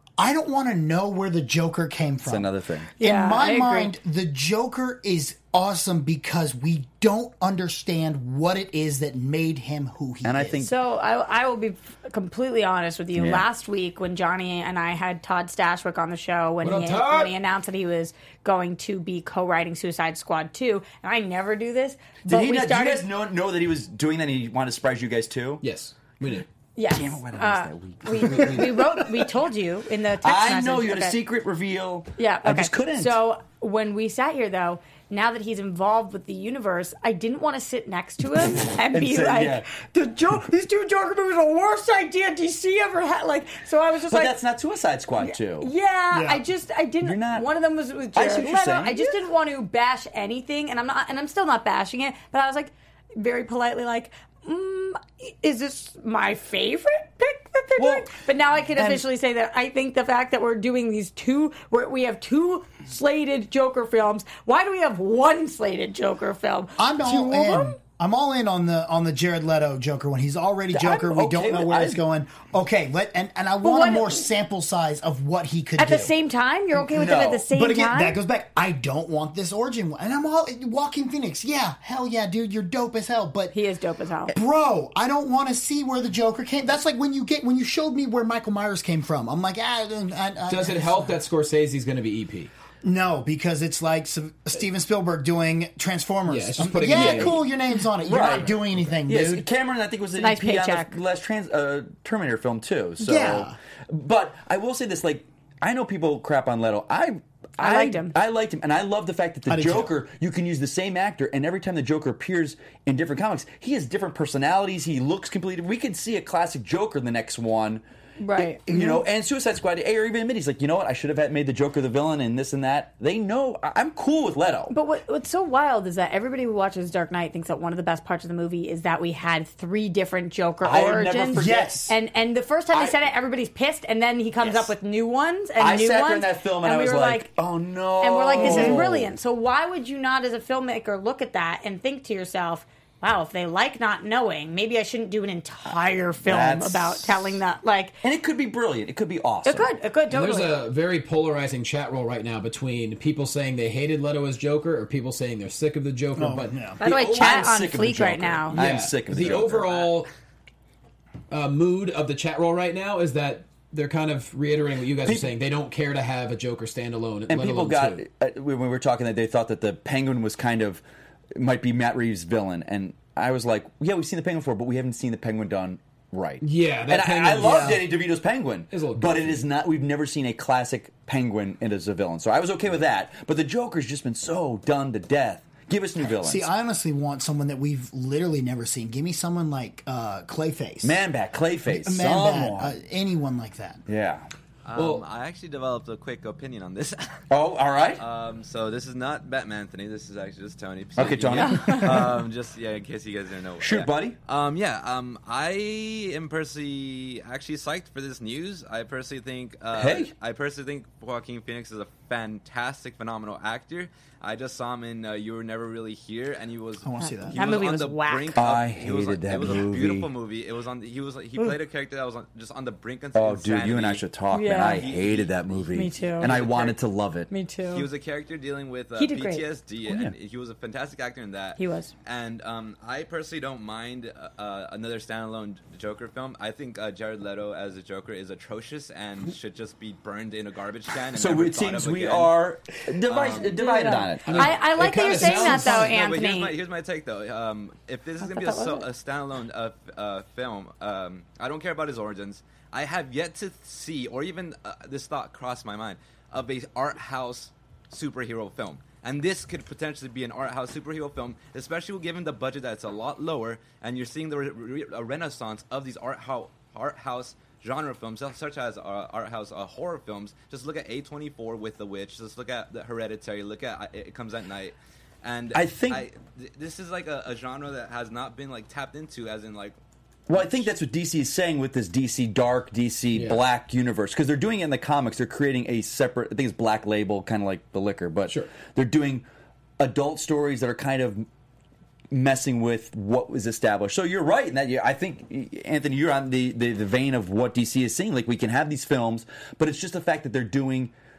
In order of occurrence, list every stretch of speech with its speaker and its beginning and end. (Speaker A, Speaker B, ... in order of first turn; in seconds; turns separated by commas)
Speaker A: 0.2-2.5, Speaker B: 2.2-2.9, Speaker C: 3.0-3.9, Speaker A: 3.0-10.6, Speaker B: 10.2-10.7, Speaker C: 10.6-23.1, Speaker B: 13.1-13.4, Speaker D: 16.6-17.3, Speaker B: 22.2-25.6, Speaker D: 25.6-26.5, Speaker C: 26.8-31.2, Speaker B: 26.9-29.1, Speaker B: 30.2-33.2, Speaker C: 32.2-44.3, Speaker B: 38.9-39.7, Speaker B: 44.1-45.7, Speaker C: 45.2-67.8, Speaker A: 46.1-46.4, Speaker B: 47.0-47.5, Speaker B: 48.1-49.2, Speaker B: 57.8-58.1, Speaker B: 58.8-59.0, Speaker A: 66.8-76.1, Speaker B: 70.7-72.0, Speaker C: 73.6-74.2, Speaker C: 75.8-78.2, Speaker B: 76.8-77.5, Speaker A: 77.5-83.5, Speaker C: 83.5-84.3, Speaker A: 84.3-91.2, Speaker D: 90.5-92.5, Speaker A: 92.8-99.4, Speaker D: 96.3-97.4, Speaker B: 96.9-97.4, Speaker B: 98.0-117.8, Speaker D: 98.5-98.9, Speaker C: 100.2-101.0, Speaker A: 103.0-103.5, Speaker C: 107.6-108.1, Speaker A: 109.5-109.9, Speaker C: 118.2-118.6, Speaker B: 118.3-124.7, Speaker A: 118.7-119.0, Speaker C: 124.7-137.3, Speaker B: 130.6-131.9, Speaker A: 131.3-131.9, Speaker B: 132.7-133.0, Speaker B: 134.4-134.7, Speaker B: 135.6-139.1, Speaker C: 138.0-148.0, Speaker A: 138.3-138.8, Speaker B: 146.2-147.4, Speaker B: 148.0-149.7, Speaker C: 149.4-150.6, Speaker D: 150.1-156.8, Speaker A: 156.2-156.8, Speaker C: 156.8-158.6, Speaker B: 156.8-159.7, Speaker D: 158.5-160.1, Speaker D: 161.3-168.0, Speaker B: 165.0-165.3, Speaker B: 167.3-170.8, Speaker B: 171.3-186.5, Speaker D: 176.4-177.8, Speaker A: 177.4-177.8, Speaker D: 178.7-179.4, Speaker A: 186.0-191.0, Speaker B: 190.8-192.7, Speaker A: 191.7-193.8, Speaker B: 193.9-194.3, Speaker E: 194.6-197.2, Speaker D: 194.7-195.0, Speaker B: 197.3-198.0, Speaker E: 198.0-224.1, Speaker B: 201.0-202.2, Speaker C: 201.4-201.8, Speaker B: 203.6-204.2, Speaker B: 209.7-210.1, Speaker A: 216.8-217.4, Speaker C: 217.0-218.4, Speaker B: 218.3-220.1, Speaker B: 223.1-227.3, Speaker C: 224.3-224.8, Speaker E: 224.6-226.7, Speaker C: 225.7-226.5, Speaker C: 227.3-227.9, Speaker E: 227.7-242.3, Speaker C: 229.0-229.4, Speaker C: 231.6-231.9, Speaker B: 241.1-244.6, Speaker E: 243.1-243.6, Speaker C: 243.5-246.6, Speaker D: 244.2-245.9, Speaker E: 245.2-279.8, Speaker C: 248.2-248.9, Speaker B: 275.5-276.1, Speaker B: 280.3-289.2, Speaker E: 280.3-280.6, Speaker D: 283.1-283.4, Speaker B: 289.8-291.2, Speaker B: 292.1-300.9